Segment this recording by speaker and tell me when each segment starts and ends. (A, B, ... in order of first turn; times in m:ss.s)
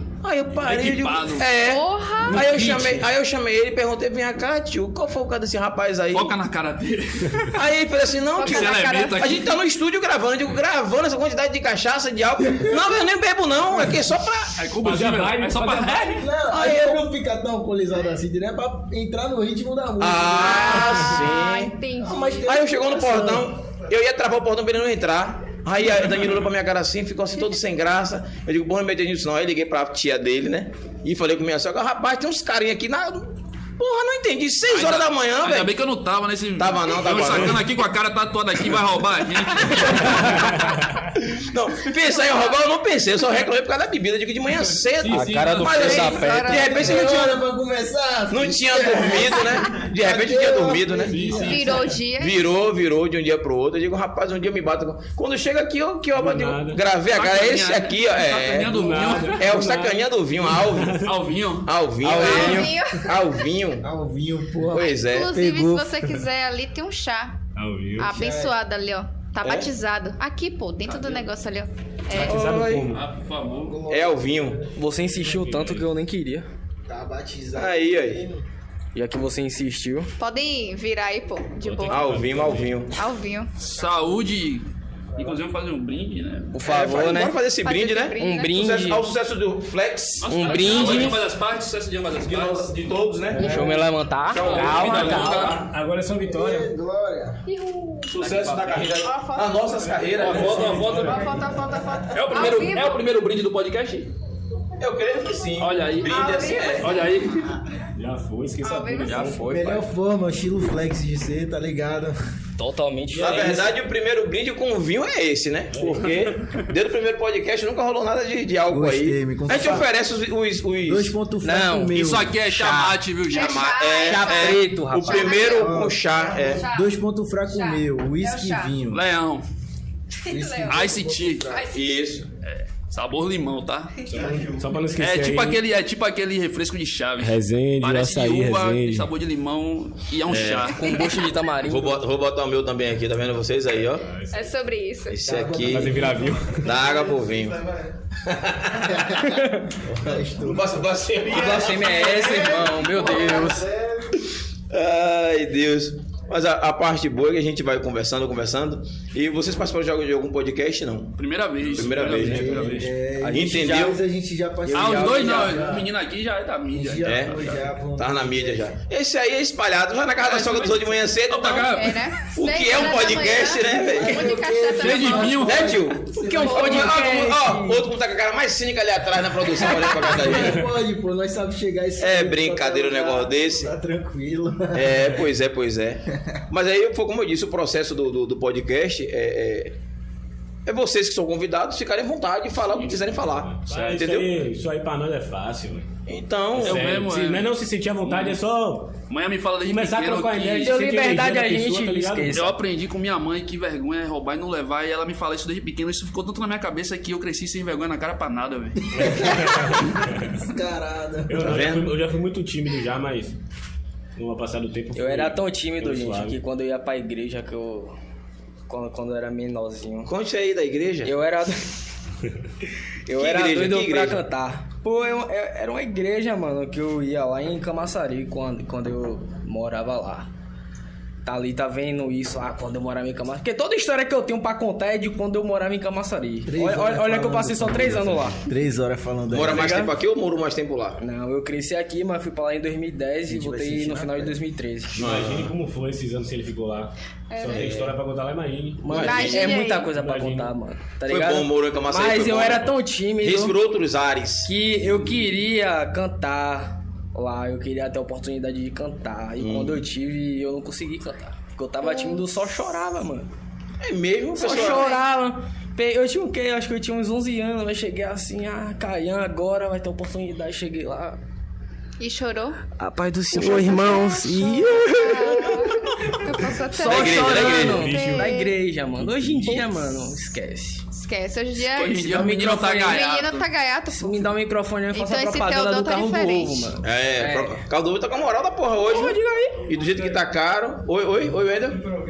0:00.2-0:06.4 A
0:00.6-0:01.5 B
0:01.6-0:02.4 C
0:02.4-0:03.0 B
0:06.1-0:07.6 B
0:07.5-0:14.6 A
0:08.3-0:09.4 C
0:08.4-0:09.5 B
0:14.6-0:16.2 B
0:14.8-0:16.3 D
0:16.2-0:21.2 E
0:16.4-0:17.1 A
0:20.0-0:21.8 A
0:20.4-0:22.6 C
0:22.0-0:23.5 E
0:22.4-0:35.7 A
0:34.7-0:40.6 B
0:36.6-0:37.7 A
0:39.6-0:40.6 A
0:40.2-0:41.0 D
0:41.2-0:47.4 A
0:42.0-0:42.6 C
0:45.0-0:46.0 B
0:45.1-0:46.8 F
0:45.7-0:47.1 C
0:46.5-0:51.8 E
0:48.3-0:51.6 A
0:51.1-0:51.5 B
0:51.2-0:51.6 D
0:51.4-0:52.4 C
0:52.2-1:01.1 A
0:56.2-0:56.8 D
0:57.1-0:59.6 B
0:58.7-1:01.2 D
1:01.0-1:01.7 B
1:01.6-1:03.9 A
1:02.0-1:02.8 F
1:02.2-1:03.3 C
1:03.8-1:06.2 E
1:04.7-1:05.4 A
1:04.8-1:07.4 C
1:07.6-1:08.1 D
1:08.0-1:12.4 C
1:08.0-1:08.6 E
1:09.4-1:09.7 A
1:10.8-1:11.3 B
1:12.1-1:13.1 D
1:12.2-1:12.9 A
1:12.9-1:13.8 B
1:13.4-1:14.6 E
1:13.9-1:14.7 A
1:14.8-1:16.5 F
1:14.8-1:15.9 D
1:16.9-1:18.4 E
1:17.5-1:18.3 A
1:19.0-1:20.1 F
1:20.2-1:22.2 C
1:21.6-1:22.8 D
1:21.9-1:22.9 A
1:22.9-1:23.5 C
1:23.6-1:24.7 B
1:25.2-1:26.5 B
1:26.5-1:27.4 F
1:26.6-1:31.2 A
1:27.6-1:28.8 C
1:28.2-1:29.0 F
1:30.2-1:32.7 B
1:30.3-1:31.2 F
1:32.2-1:33.7 A
1:33.4-1:35.6 F
1:33.4-1:33.8 C
1:34.3-1:35.5 A
1:34.3-1:35.6 B
1:34.5-1:36.7 D
1:36.2-1:37.4 E
1:37.4-1:38.2 C
1:38.1-1:41.1 A
1:38.2-1:39.0 B
1:38.8-1:40.0 C
1:40.2-1:41.3 B
1:40.4-1:41.3 D
1:40.9-1:43.0 C
1:42.1-1:44.1 B
1:44.8-1:47.0 A
1:45.6-1:47.6 B
1:46.0-1:47.2 C
1:47.9-1:49.5 D
1:48.6-1:49.3 C
1:49.1-1:49.4 B
1:49.1-1:49.9 F
1:49.4-1:52.2 E
1:52.6-1:53.6 F
1:53.2-2:01.2 A
1:53.2-1:53.5 D
1:55.7-1:56.4 D
1:58.7-1:59.9 E
2:00.8-2:02.4 E
2:01.4-2:02.0 F
2:01.9-2:03.7 B
2:03.3-2:06.6 A
2:03.3-2:05.8 C
2:04.0-2:05.3 F
2:05.3-2:09.0 E
2:06.3-2:07.0 C
2:07.5-2:08.8 C
2:08.9-2:09.5 B
2:10.2-2:10.9 C
2:10.2-2:11.7 E
2:10.7-2:11.5 B
2:11.5-2:12.0 C
2:11.7-2:12.3 A
2:12.4-2:14.0 B
2:14.1-2:15.6 D
2:14.1-2:14.6 E
2:15.0-2:21.1 B
2:17.2-2:19.1 D
2:20.3-2:20.8 A
2:20.7-2:22.0 F
2:21.7-2:24.1 A
2:24.0-2:24.5 D
2:24.3-2:25.2 C
2:25.1-2:27.6 A
2:25.2-2:26.4 E
2:25.6-2:26.8 D
2:28.2-2:29.4 A
2:28.8-2:30.8 E
2:30.4-2:32.4 A
2:31.3-2:33.7 F
2:32.1-2:34.2 E
2:34.7-2:42.7 A
2:41.2-2:43.0 B
2:41.8-2:45.9 E
2:43.2-2:44.0 F
2:43.3-2:44.0 A
2:44.7-2:45.7 F
2:44.7-2:47.7 B
2:46.7-2:48.7 E
2:47.0-2:54.4 A
2:50.2-2:52.0 B
2:51.7-2:55.5 C
2:53.6-2:57.0 E
2:54.8-2:55.8 B
2:55.4-3:00.7 A
2:56.2-2:57.8 F
2:56.4-2:56.8 C
2:59.6-3:05.2 E
3:02.0-3:03.7 A
3:04.7-3:09.8 A
3:10.7-3:14.3 A
3:12.8-3:15.9 D
3:16.1-3:16.9 A
3:16.6-3:18.9 D
3:16.6-3:17.5 B
3:18.0-3:18.4 B
3:19.1-3:20.8 B
3:19.6-3:22.4 D
3:20.6-3:22.5 F
3:22.3-3:28.9 B
3:28.9-3:30.4 D
3:28.9-3:31.7 E
3:31.3-3:33.4 D
3:31.4-3:31.9 A
3:34.2-3:36.4 D
3:34.9-3:38.0 F
3:38.7-3:40.1 F
3:40.1-3:41.1 A
3:41.0-3:41.8 F
3:43.1-3:50.3 F
3:43.1-3:44.2 A
3:51.2-3:58.4 F
3:56.5-3:59.7 E
3:59.3-4:01.0 A
3:59.5-3:59.9 F
4:01.0-4:05.1 F
4:03.2-4:04.4 E
4:04.9-4:09.3 D
4:05.0-4:05.5 A
4:07.3-4:07.7 C
4:07.5-4:08.0 A
4:08.8-4:13.6 F
4:08.9-4:09.5 A
4:09.0-4:09.9 C
4:09.9-4:10.5 D
4:11.1-4:14.5 A
4:14.4-4:23.3 F
4:19.4-4:19.8 A
4:21.8-4:22.2 C
4:23.8-4:24.9 A
4:24.4-4:31.2 F
4:24.5-4:25.0 C
4:32.0-4:32.6 C
4:32.7-4:35.7 F
4:33.3-4:38.5 C
4:36.7-4:40.8 F
4:36.8-4:37.8 A
4:37.3-4:38.3 D
4:39.0-4:39.7 D
4:40.9-4:42.2 C
4:41.6-4:43.5 B
4:41.9-4:43.1 F
4:42.8-4:44.3 C
4:43.9-4:47.6 F
4:44.9-4:46.7 C
4:46.8-4:51.8 A
4:48.8-4:49.6 F